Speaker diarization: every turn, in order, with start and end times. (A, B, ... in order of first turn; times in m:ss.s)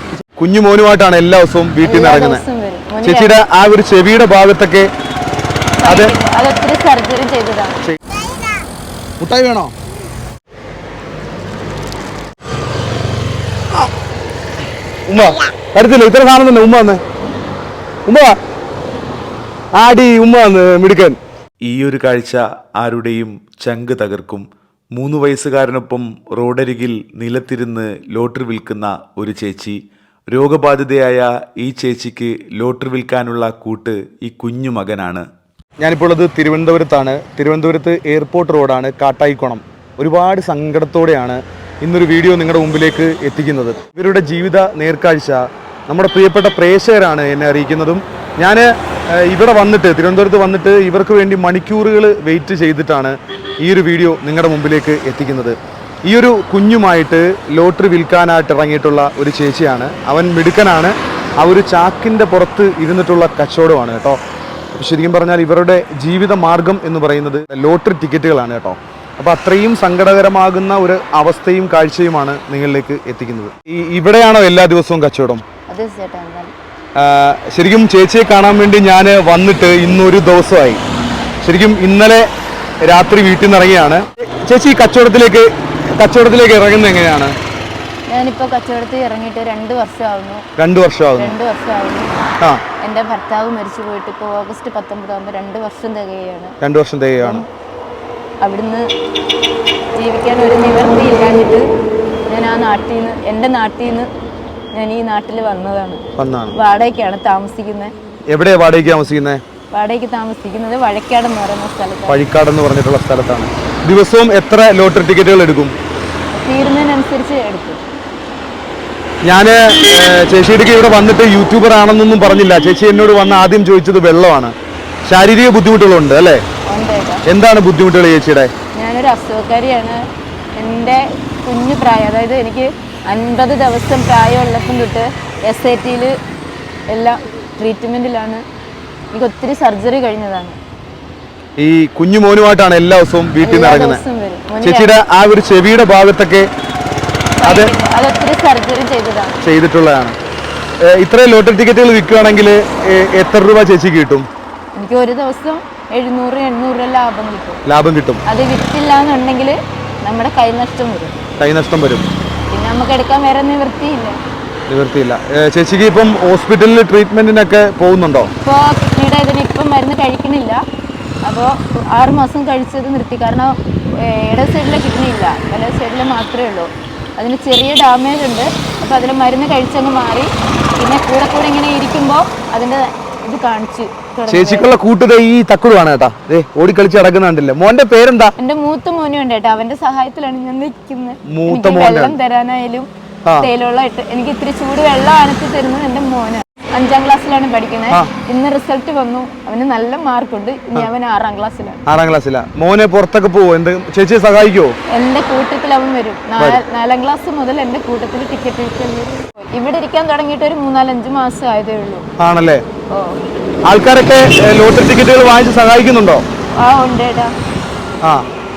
0:00.4-0:02.4 A
0:01.8-0:03.4 B
0:03.0-0:04.9 A
0:05.8-0:07.8 B
0:05.8-0:06.1 A
0:09.2-0:09.7 A
0:15.1-0:17.0 A
0:18.0-0:18.3 A
0:19.7-0:21.2 A
0:21.6-0:35.2 C
0:35.8-0:55.6 A
0:56.1-1:04.2 A
1:04.7-1:15.4 A
1:15.7-1:16.5 B
1:17.0-1:20.8 A
1:21.4-1:22.3 A
1:22.8-1:27.3 A
1:28.1-1:30.4 B
1:30.6-1:31.4 A
1:31.2-1:32.3 B
1:32.8-1:36.6 B
1:36.6-1:37.4 A
1:38.4-1:38.9 B
1:40.0-1:41.6 B
1:42.3-1:44.1 B
1:44.7-1:46.0 B
1:46.2-1:46.5 A
1:46.5-1:47.9 B
1:48.3-1:49.4 A
1:49.7-1:52.2 B
1:52.1-1:55.7 A
1:56.3-1:57.8 B
1:59.2-2:04.5 A
2:05.0-2:06.4 A
2:06.7-2:07.2 B
2:07.2-2:08.5 A
2:08.7-2:10.0 B
2:10.6-2:16.1 B
2:16.9-2:18.4 B
2:19.1-2:20.6 B
2:21.6-2:24.0 A
2:23.4-2:25.0 B
2:24.6-2:26.5 A
2:27.4-2:29.4 B
2:27.4-2:27.7 A
2:29.4-2:30.1 A
2:30.8-2:34.3 A
2:34.7-2:37.6 B
2:37.6-2:38.2 A
2:38.2-2:41.1 B
2:41.4-2:42.1 A
2:42.5-2:44.2 B
2:44.7-2:48.3 A
2:48.4-2:50.6 B
2:51.2-3:04.8 B
3:04.3-3:08.3 A
3:08.4-3:12.9 B
3:11.3-3:12.1 A
3:13.4-3:21.8 B
3:21.9-3:24.7 A
3:24.9-3:32.0 B
3:32.2-3:32.6 A
3:32.9-3:33.2 B
3:33.7-3:36.2 A
3:36.6-3:37.3 B